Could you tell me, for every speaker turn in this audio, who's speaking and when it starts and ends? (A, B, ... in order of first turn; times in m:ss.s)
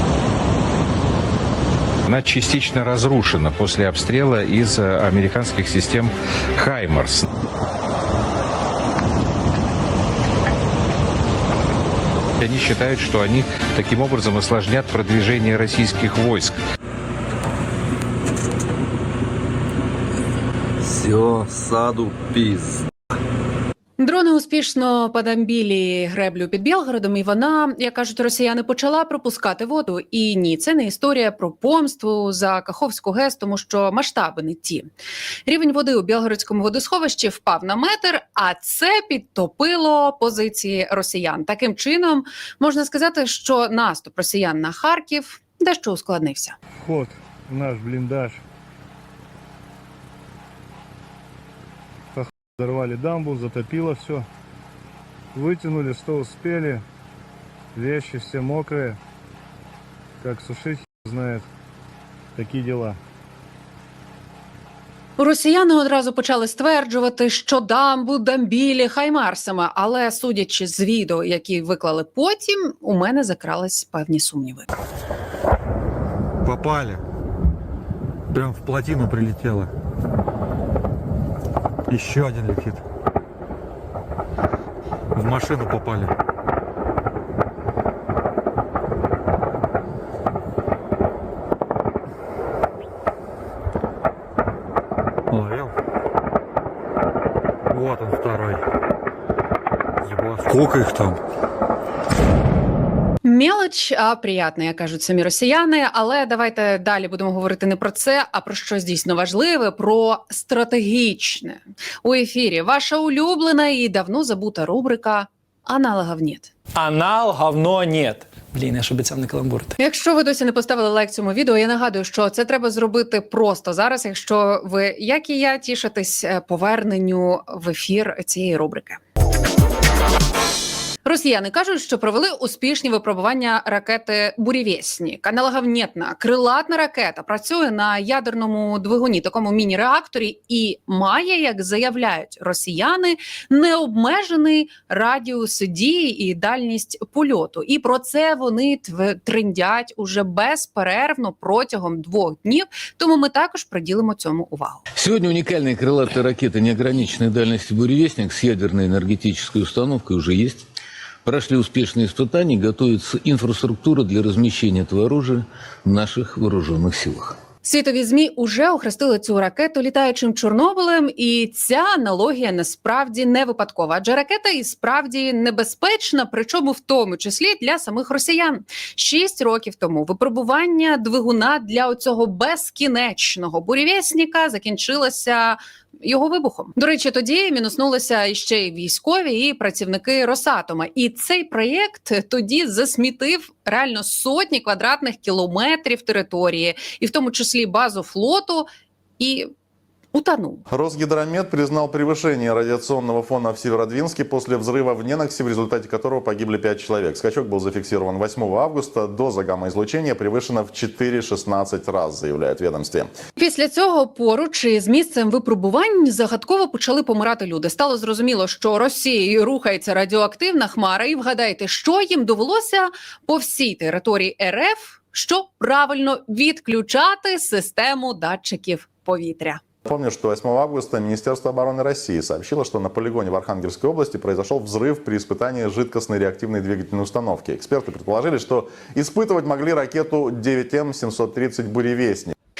0:02.0-0:07.2 A
0:12.4-0:16.5 A
0:20.8-0:22.8 B
0:24.0-0:34.9 C
0:35.4-0:46.6 C
0:46.8-0:48.4 D
0:52.2-0:54.3 D
0:55.4-0:56.8 D
0:57.8-0:59.0 D
1:00.2-1:01.4 D
1:02.4-1:03.0 D
1:05.2-1:14.7 C
1:16.4-1:17.0 E
1:18.3-1:19.7 E
1:21.9-1:22.8 E
1:25.2-1:26.1 E
1:35.3-1:35.7 E
1:37.7-1:38.6 E
1:40.1-1:41.2 E
1:43.2-1:56.5 C
1:56.8-1:59.7 F
1:59.8-2:09.0 C
2:11.0-2:34.8 C
2:34.9-2:40.6 G
2:41.2-2:47.4 G
2:47.6-3:18.7 C
3:19.2-3:19.5 C
3:20.1-3:20.6 C
3:20.7-3:33.1 H
3:33.4-3:49.8 C
3:49.8-4:02.3 H